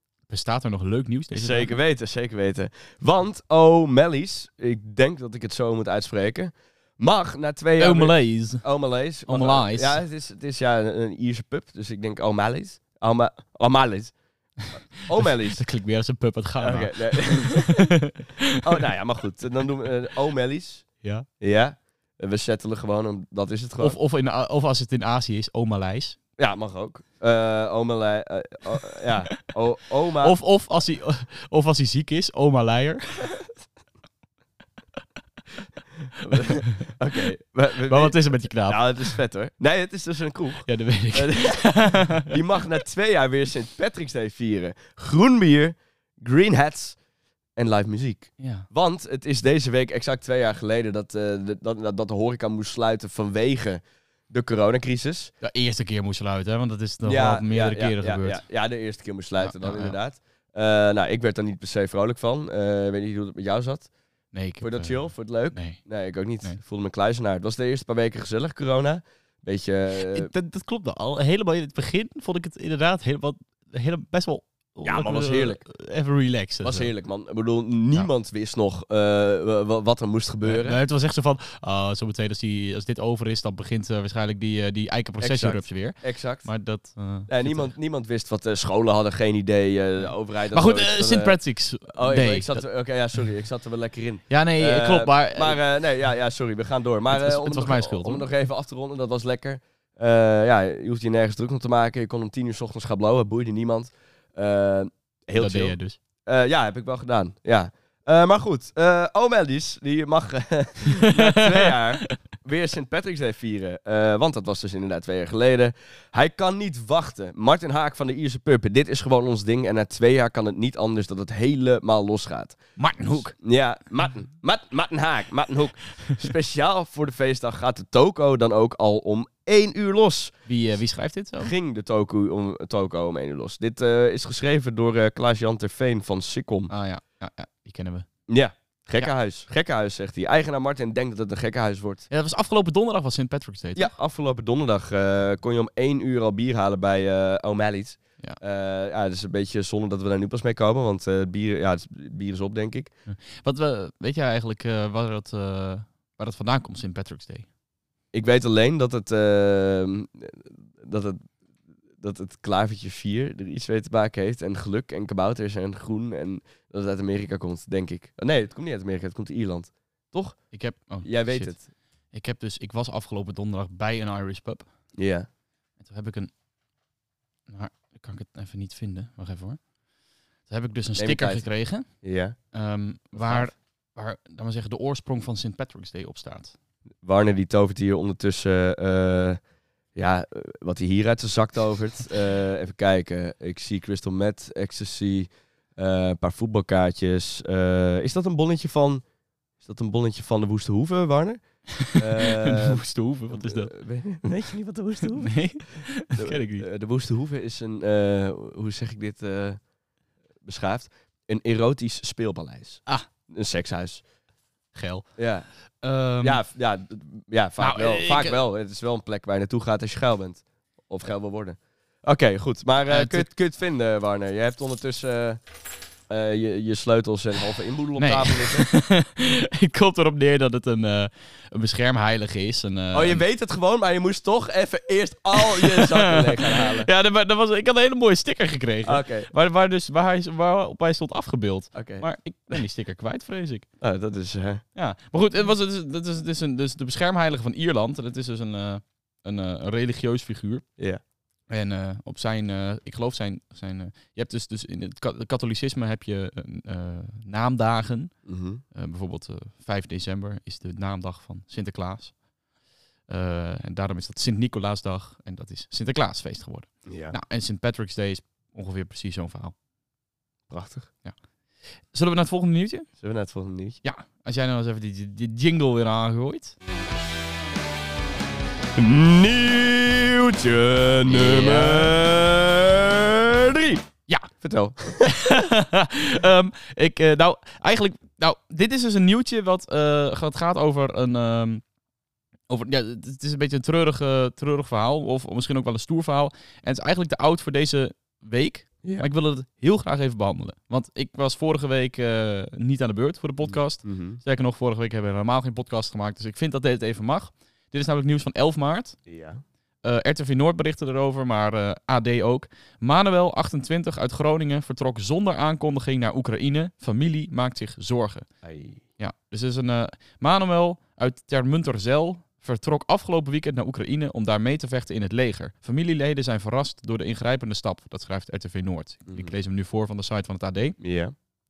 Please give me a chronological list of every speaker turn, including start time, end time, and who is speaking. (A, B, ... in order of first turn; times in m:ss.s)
0:00.3-0:01.7 A
0:01.3-0:14.1 B
0:07.8-0:08.6 A
0:09.3-0:10.0 A
0:15.0-0:15.6 B
0:15.1-0:18.6 A
0:16.6-0:17.9 B
0:18.6-0:24.0 B
0:23.8-0:26.2 A
0:26.4-0:30.4 B
0:30.2-0:33.3 A
0:36.2-0:47.0 B
0:37.9-0:39.2 A
0:40.7-0:42.3 A
0:47.6-0:55.3 B
0:48.4-0:48.7 A
0:55.4-0:58.4 A
0:57.0-1:03.9 B
0:59.4-1:00.0 A
1:04.3-1:05.8 A
1:04.6-1:10.3 B
1:10.0-1:16.9 A
1:14.8-1:15.6 B
1:16.6-1:20.8 B
1:20.4-1:27.7 A
1:25.2-1:26.5 B
1:27.3-2:02.6 B
1:30.0-1:32.6 A
1:34.3-1:35.6 A
1:37.1-1:38.2 A
1:45.4-1:46.0 A
1:51.0-1:52.1 A
2:02.8-2:03.3 A
2:03.1-2:10.3 B
2:10.4-2:11.5 A
2:11.4-2:16.7 B
2:16.7-2:18.1 A
2:18.3-2:22.1 B
2:22.1-2:23.9 A
2:23.8-2:32.9 B
2:33.1-2:37.5 A
2:38.1-2:41.3 B
2:42.0-2:50.4 B
2:50.5-2:51.6 A
2:51.0-2:51.6 B
2:52.1-2:54.7 A
2:55.0-2:55.3 B
2:55.8-2:56.3 A
2:57.5-2:59.6 A
3:00.5-3:01.9 A
3:01.0-3:02.4 B
3:02.5-3:06.5 A
3:03.1-3:03.5 B
3:07.0-3:09.4 B
3:09.9-3:19.0 B
3:19.6-3:22.8 B
3:21.8-3:23.7 A
3:23.3-3:29.6 B
3:25.2-3:26.7 A
3:30.4-3:34.0 B
3:34.7-3:35.1 A
3:35.2-3:35.5 B
3:35.8-3:36.4 A
3:36.2-3:45.4 B
3:37.6-3:38.4 A
3:42.9-3:43.3 A
3:46.1-3:48.7 B
3:48.0-3:53.2 A
3:52.9-3:56.9 B
3:55.4-4:03.6 A
3:58.8-3:59.3 B
4:01.7-4:02.0 B
4:03.8-4:04.6 B
4:04.7-4:10.6 A
4:11.5-4:18.2 A
4:18.2-4:18.6 B
4:18.7-4:22.1 A
4:23.1-4:29.5 A
4:26.8-4:27.2 B
4:30.5-4:30.9 B
4:31.9-4:32.9 A
4:33.0-4:33.8 B
4:33.8-4:36.6 A
4:38.8-4:43.8 B
4:41.0-4:42.0 A
4:44.4-4:45.1 B
4:45.0-4:51.6 A
4:52.5-5:09.0 A
4:58.8-4:59.1 B
5:03.4-5:04.2 B
5:09.1-5:09.4 B
5:09.8-5:18.3 A
5:18.4-5:18.8 B
5:19.0-5:30.8 A
5:29.1-5:29.3 B
5:30.8-5:31.1 B